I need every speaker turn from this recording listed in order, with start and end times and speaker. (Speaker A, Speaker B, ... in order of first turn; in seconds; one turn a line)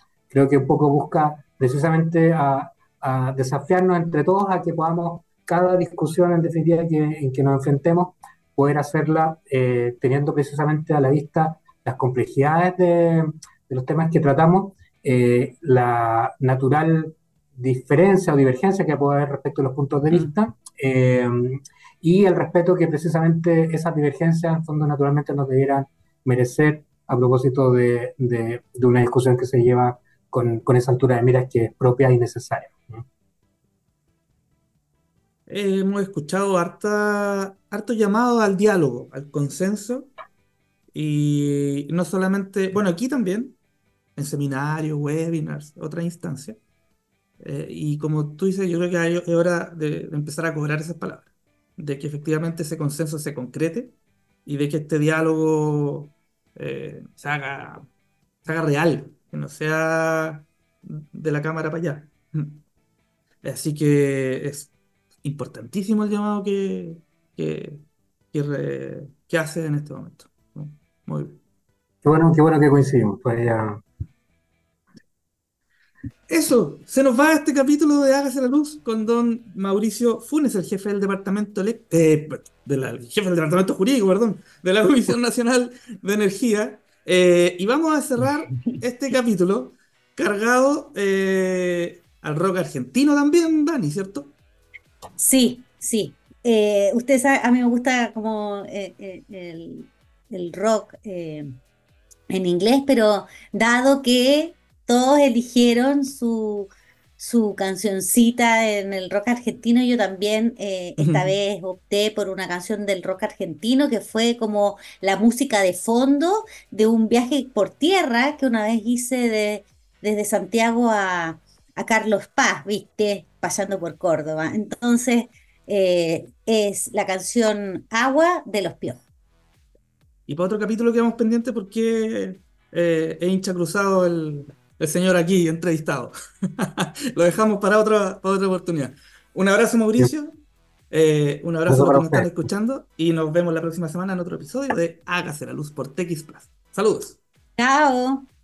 Speaker A: 0.3-33.0
Speaker B: 35.5-40.1
Speaker B: 40.9-43.6
Speaker B: 44.1-46.6
Speaker B: 47.4-53.9
Speaker B: 54.4-57.9
Speaker B: 58.4-62.6
Speaker B: 63.4-64.7
Speaker B: 65.2-71.4
Speaker A: 72.0-73.8
Speaker B: 76.3-94.3
Speaker C: 95.2-101.5
Speaker C: 102.3-129.0
Speaker B: 111.0-111.3
Speaker B: 130.3-140.3
Speaker B: 140.9-147.2
Speaker A: 141.7-142.3
Speaker C: 147.6-148.3